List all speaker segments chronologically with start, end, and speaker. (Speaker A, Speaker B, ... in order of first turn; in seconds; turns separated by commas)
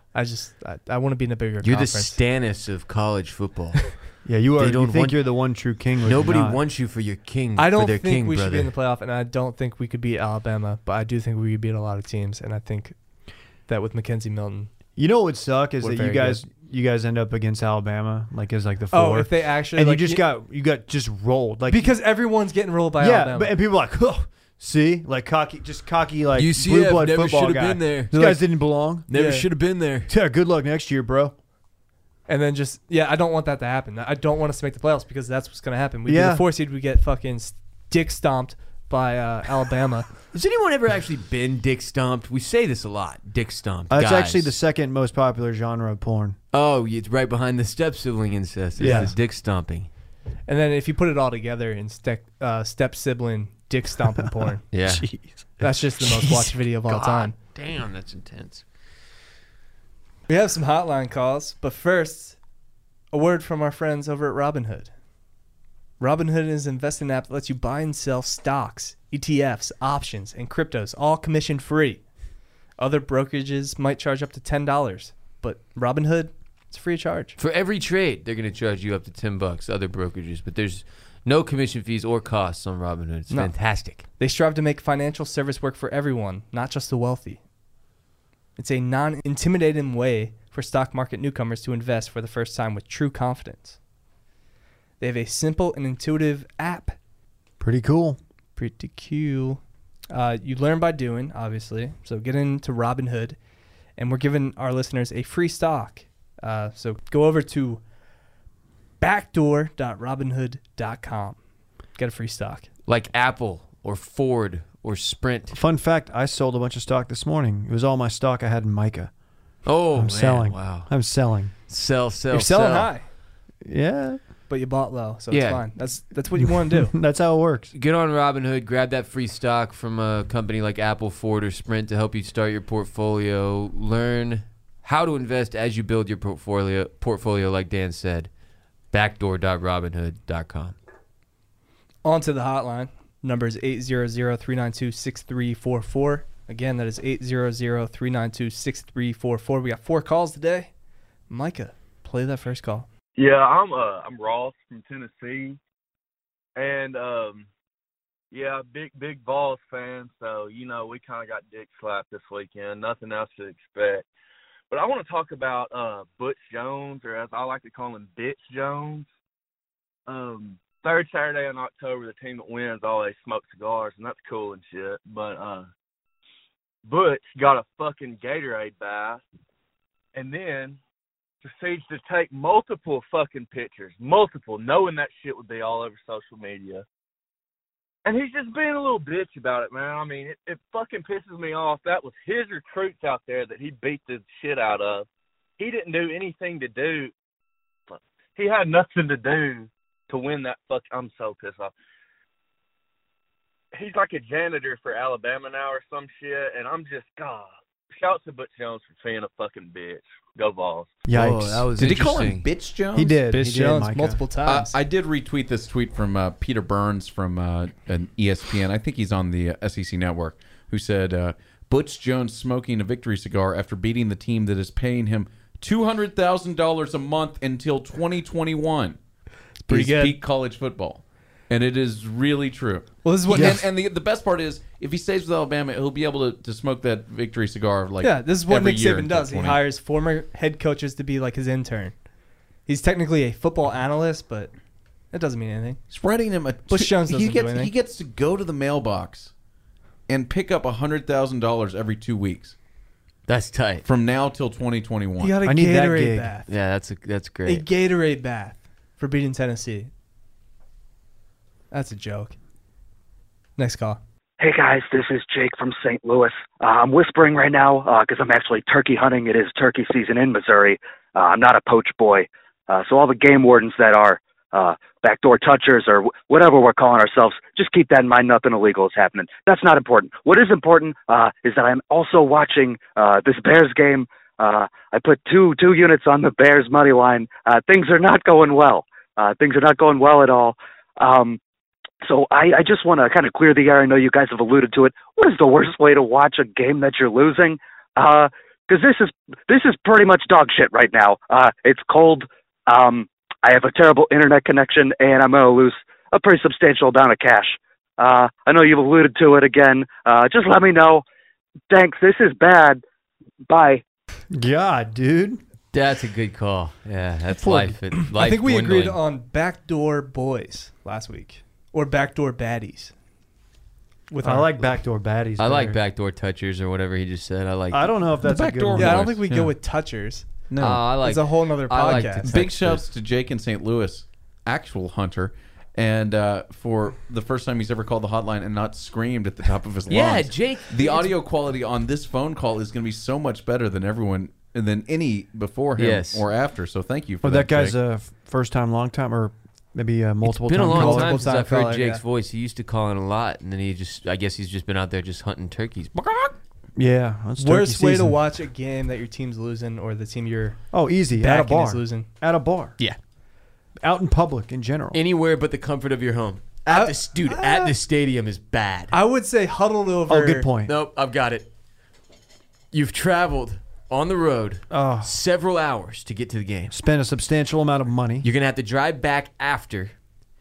Speaker A: 0.1-2.2, Speaker B: 1.6-4.0, Speaker C: 4.2-6.6, Speaker B: 4.6-5.2, Speaker B: 6.0-8.7, Speaker A: 7.6-12.9, Speaker A: 13.7-14.7, Speaker C: 15.0-21.9, Speaker A: 15.8-16.4, Speaker A: 18.9-20.2, Speaker A: 21.7-23.5, Speaker C: 23.0-29.1, Speaker B: 26.4-28.4, Speaker B: 29.1-30.1, Speaker A: 29.1-29.5, Speaker C: 30.1-31.4, Speaker A: 32.3-40.1, Speaker C: 36.1-36.4, Speaker B: 40.3-44.5, Speaker C: 43.9-46.4, Speaker B: 46.5-49.9, Speaker C: 48.8-49.1, Speaker A: 48.8-49.1, Speaker A: 50.5-54.7, Speaker B: 54.7-55.2, Speaker C: 54.9-55.4, Speaker A: 55.6-57.4, Speaker B: 56.2-58.6, Speaker A: 60.3-62.4, Speaker A: 63.1-64.9, Speaker A: 66.0-72.0, Speaker A: 72.8-77.4, Speaker B: 77.4-84.0, Speaker A: 83.3-87.4, Speaker A: 88.6-93.8, Speaker A: 95.0-97.0, Speaker C: 97.6-98.2, Speaker A: 98.6-99.6, Speaker A: 100.1-103.4, Speaker A: 104.0-107.8, Speaker A: 109.0-111.4, Speaker A: 112.0-112.7, Speaker B: 112.9-115.6, Speaker C: 115.5-119.1, Speaker B: 119.7-120.9, Speaker C: 119.9-121.5, Speaker B: 121.7-122.9, Speaker A: 122.3-123.1, Speaker C: 123.6-124.2, Speaker A: 124.5-126.9, Speaker B: 125.3-125.7, Speaker C: 126.7-127.7, Speaker B: 127.7-138.3, Speaker B: 138.9-140.8, Speaker A: 142.1-150.7, Speaker A: 151.3-152.9, Speaker D: 153.2-155.6, Speaker D: 156.6-157.5, Speaker D: 158.3-164.1, Speaker D: 164.7-169.1, Speaker D: 170.1-175.7, Speaker D: 176.9-179.2, Speaker D: 180.2-180.8, Speaker D: 181.4-186.8, Speaker D: 188.1-195.1, Speaker D: 195.6-197.1, Speaker D: 197.9-201.7, Speaker D: 203.7-211.0, Speaker C: 211.1-211.7, Speaker B: 211.1-212.5, Speaker E: 211.8-213.2, Speaker C: 212.9-214.2, Speaker A: 213.3-214.8, Speaker E: 214.4-229.0, Speaker A: 229.6-230.2, Speaker E: 229.7-239.6, Speaker A: 233.0-233.6, Speaker C: 233.3-233.6, Speaker A: 238.0-241.9, Speaker A: 242.7-244.5, Speaker A: 245.1-245.8, Speaker E: 245.9-249.3, Speaker A: 246.7-247.7, Speaker E: 250.1-252.6, Speaker B: 253.3-253.9, Speaker E: 253.8-255.4, Speaker A: 255.2-256.5, Speaker C: 255.4-256.3, Speaker B: 256.5-257.6, Speaker A: 257.5-259.9, Speaker A: 261.7-262.4, Speaker A: 263.6-264.0, Speaker F: 264.4-291.4, Speaker F: 292.0-311.0, Speaker F: 311.7-312.8, Speaker F: 313.5-313.8, Speaker C: 314.3-315.4, Speaker B: 315.7-319.0, Speaker C: 317.4-317.8, Speaker A: 318.0-322.9, Speaker A: 324.1-324.7, Speaker C: 324.2-325.8, Speaker B: 325.4-328.0, Speaker C: 327.7-329.1, Speaker E: 328.2-329.6, Speaker A: 328.8-330.3, Speaker E: 330.5-330.9, Speaker B: 330.6-332.8, Speaker A: 331.0-332.3, Speaker E: 332.2-347.8, Speaker B: 339.9-341.1, Speaker B: 345.8-346.2, Speaker C: 347.2-351.3, Speaker B: 350.2-356.4, Speaker A: 350.7-352.0, Speaker C: 356.8-358.2, Speaker A: 357.4-360.6, Speaker C: 360.7-362.8, Speaker A: 361.1-362.1, Speaker C: 363.8-365.0, Speaker B: 364.9-369.0, Speaker A: 366.7-367.7, Speaker A: 368.9-370.5, Speaker C: 370.1-370.7, Speaker B: 370.7-371.5, Speaker B: 372.7-376.8, Speaker C: 374.7-375.1, Speaker C: 376.7-378.3, Speaker B: 378.2-379.9